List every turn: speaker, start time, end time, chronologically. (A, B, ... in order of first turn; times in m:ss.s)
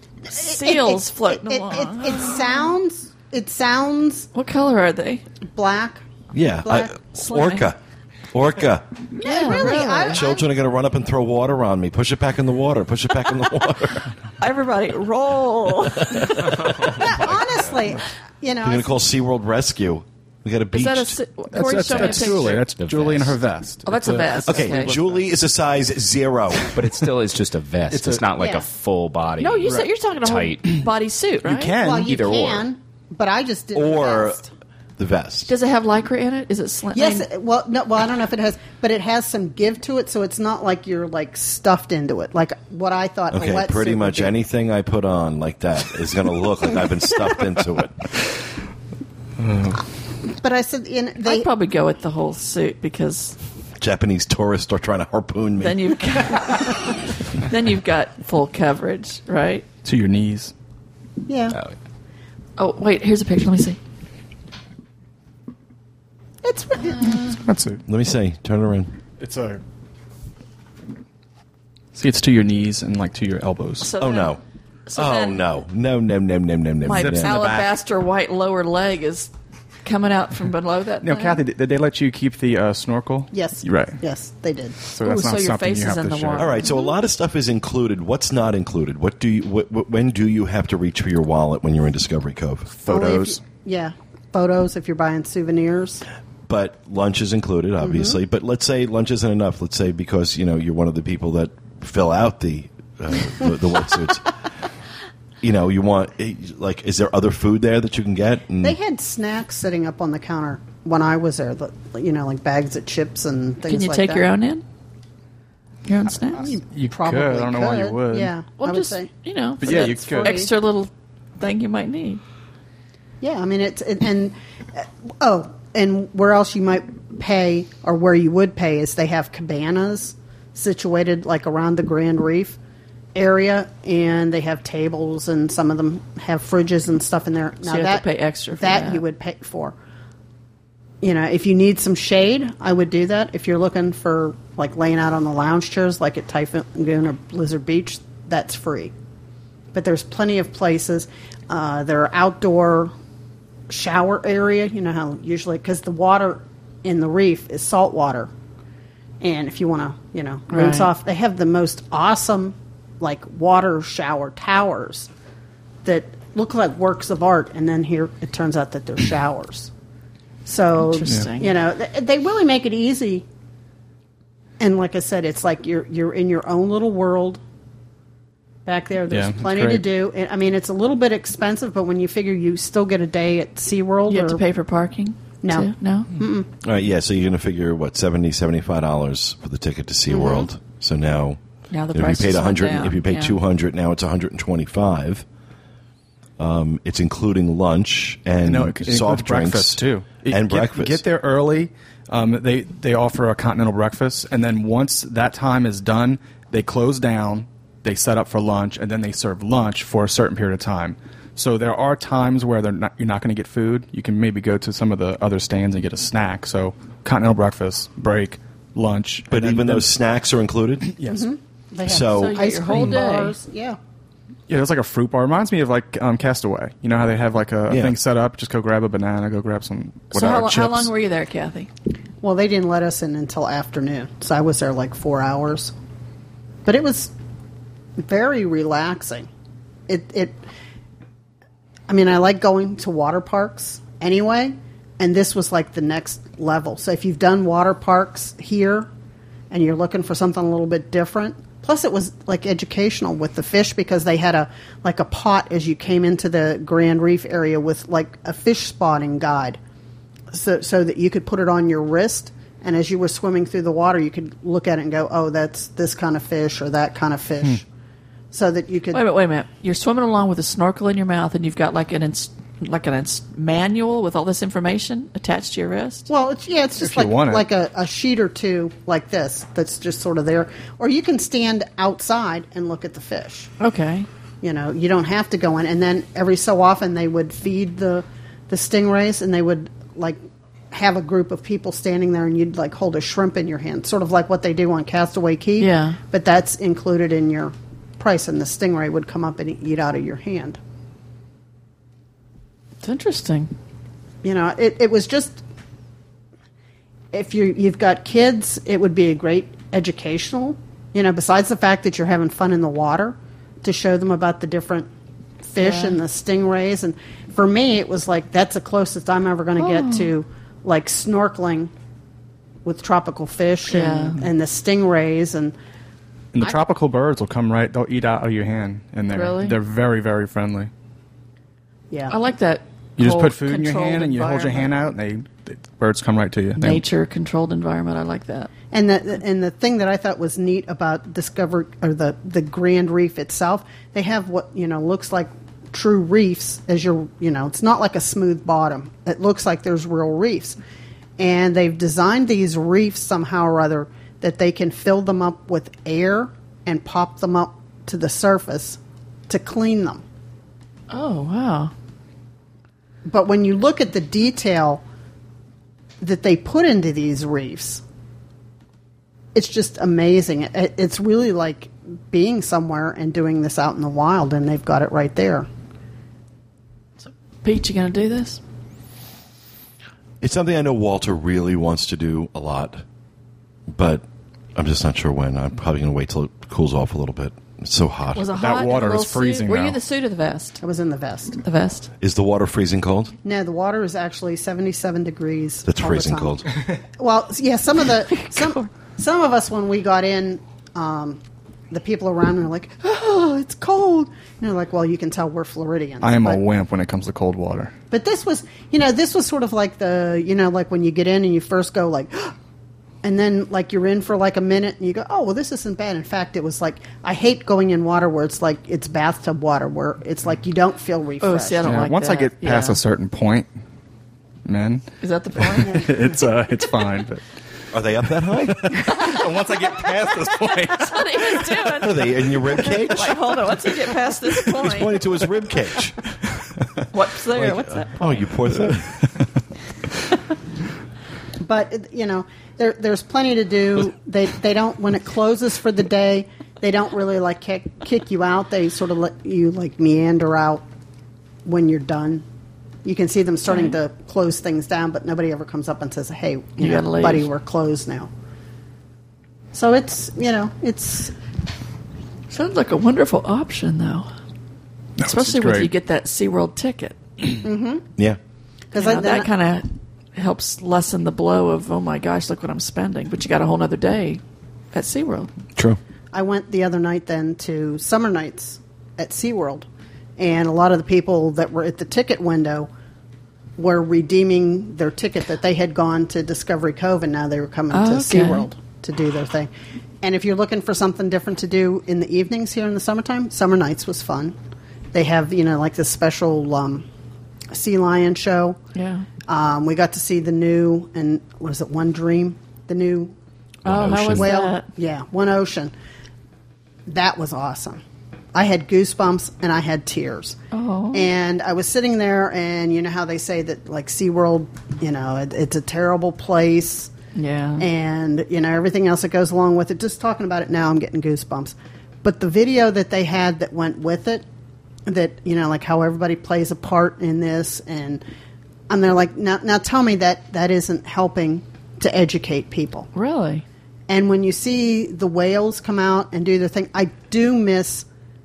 0:00.2-0:02.6 A
0:00.3-0:04.3 B
0:04.3-0:05.2 A
0:05.5-0:06.0 B
0:06.3-0:07.8 C
0:06.6-0:07.0 B
0:07.1-0:07.7 A
0:08.3-0:09.0 C
0:09.2-0:10.2 A
0:09.2-0:10.5 B
0:09.6-0:14.1 C
0:14.4-0:16.7 A
0:16.5-0:17.2 D
0:16.8-0:18.9 B
0:18.6-0:21.2 C
0:20.7-0:22.6 A
0:21.5-0:25.3 E
0:21.8-0:22.2 C
0:22.7-0:23.4 D
0:23.8-0:25.0 A
0:24.5-0:26.7 C
0:26.7-0:30.7 D
0:27.9-0:28.2 E
0:28.4-0:28.7 B
0:29.4-0:31.8 A
0:31.4-0:32.1 E
0:31.8-0:34.5 B
0:32.0-0:32.6 D
0:33.7-0:34.4 C
0:35.0-0:35.5 C
0:35.5-0:37.3 A
0:36.9-0:44.3 B
0:43.3-0:48.1 C
0:49.4-0:49.8 E
0:50.3-0:51.5 B
0:51.2-0:53.4 A
0:53.8-0:55.8 C
0:55.6-0:59.6 A
0:59.8-1:00.5 E
1:01.3-1:01.6 B
1:02.6-1:03.8 A
1:06.4-1:07.4 B
1:07.0-1:07.8 E
1:07.8-1:08.9 C
1:09.2-1:09.6 E
1:11.9-1:13.9 E
1:13.8-1:14.4 A
1:14.0-1:14.4 C
1:14.9-1:15.4 A
1:14.9-1:17.3 C
1:16.8-1:19.3 A
1:16.9-1:17.7 E
1:19.8-1:21.4 A
1:21.0-1:24.0 E
1:23.3-1:24.8 B
1:24.9-1:26.6 E
1:25.0-1:26.9 A
1:26.4-1:32.8 C
1:32.7-1:33.4 E
1:32.9-1:36.0 B
1:36.5-1:44.4 C
1:37.8-1:38.2 B
1:45.4-1:48.8 C
1:48.6-1:54.3 B
1:53.6-1:54.6 A
1:55.8-1:56.5 A
1:56.4-2:00.5 B
1:56.4-1:58.3 E
1:58.6-2:02.2 A
1:59.6-2:00.4 E
2:03.2-2:12.6 B
2:13.1-2:19.8 B
2:17.6-2:19.0 A
2:21.0-2:28.9 B
2:29.7-2:32.9 B
2:33.7-2:38.3 B
2:39.2-2:45.1 B
2:40.5-2:40.9 A
2:45.8-2:49.7 B
2:50.4-2:53.2 B
2:50.8-2:51.6 A
2:54.6-2:57.4 B
2:58.6-3:04.4 B
2:59.1-2:59.8 E
3:04.1-3:06.1 A
3:05.4-3:06.5 B
3:06.6-3:11.4 C
3:10.1-3:10.5 B
3:11.7-3:13.4 A
3:11.9-3:15.2 C
3:16.4-3:21.0 C
3:18.4-3:39.9 E
3:39.3-3:40.9 C
3:40.9-3:41.2 E
3:41.0-3:43.8 B
3:41.8-3:42.5 C
3:42.0-3:43.4 A
3:44.5-3:50.9 E
3:47.7-3:47.9 C
3:50.1-3:51.7 A
3:52.2-3:55.7 B
3:56.6-3:57.1 B
3:58.0-3:59.3 B
3:59.9-4:00.4 B
4:01.9-4:08.9 B
4:09.5-4:19.6 B
4:20.3-4:27.6 B
4:28.3-4:29.0 B
4:28.9-4:36.1 A
4:36.1-4:43.5 B
4:36.8-4:37.4 E
4:43.6-4:44.1 A
4:44.4-4:50.2 B
4:50.7-5:00.6 B
4:55.6-4:56.0 A
5:02.8-5:03.5 A
5:04.2-5:05.4 B
5:07.1-5:14.9 B
5:15.4-5:21.7 B
5:15.6-5:16.0 A
5:19.6-5:20.1 A
5:22.6-5:25.5 B
5:23.7-5:24.2 A
5:26.3-5:30.7 E
5:29.1-5:29.6 A
5:32.1-5:34.9 A
5:33.0-5:36.8 E
5:36.6-5:38.5 A
5:38.7-5:50.6 B
5:51.2-6:00.0 B
6:00.9-6:01.7 A
6:03.1-6:04.8 B
6:06.0-6:07.8 B
6:09.3-6:15.5 B
6:17.0-6:18.4 A
6:20.2-6:22.8 C
6:23.7-6:24.0 C
6:24.5-6:28.3 C
6:28.1-6:30.6 A
6:28.3-6:29.8 E
6:30.6-6:31.4 B
6:31.4-6:31.9 A
6:32.0-6:33.1 C
6:33.2-6:46.4 B
6:35.6-6:36.5 C
6:38.1-6:38.7 A
6:46.0-6:47.7 E
6:47.9-6:52.3 B
6:53.0-7:01.8 B
7:01.2-7:02.8 A
7:01.6-7:03.5 E
7:04.4-7:04.8 E
7:05.0-7:06.0 A
7:05.4-7:07.2 E
7:07.7-7:09.0 C
7:08.2-7:11.5 E
7:08.9-7:09.2 A
7:10.7-7:15.0 A
7:11.7-7:13.5 C
7:14.4-7:16.0 C
7:16.9-7:18.3 A
7:17.3-7:19.0 C
7:21.4-7:30.6 B
7:31.4-7:32.2 B
7:32.8-7:38.1 B
7:36.6-7:37.3 A
7:39.5-7:41.1 B
7:42.3-7:44.1 A
7:45.0-7:45.7 E
7:45.0-7:47.0 A
7:47.4-7:47.8 B
7:48.7-7:49.3 B
7:48.7-7:54.2 A
7:54.7-7:55.3 A
7:56.1-8:02.7 B
8:03.6-8:09.5 B
8:07.7-8:08.5 A
8:10.0-8:14.4 B
8:14.9-8:16.8 B
8:17.5-8:18.6 B
8:18.7-8:19.1 A
8:19.3-8:23.1 B
8:23.6-8:24.3 D
8:23.6-8:24.7 A
8:24.0-8:25.7 B
8:26.9-8:27.8 B
8:28.3-8:30.4 B
8:30.5-8:31.1 A
8:30.9-8:36.9 B
8:37.1-8:37.7 A
8:37.6-8:44.2 B
8:44.8-8:48.0 B
8:48.7-8:52.9 B
8:52.9-8:53.4 A
8:53.9-8:57.8 B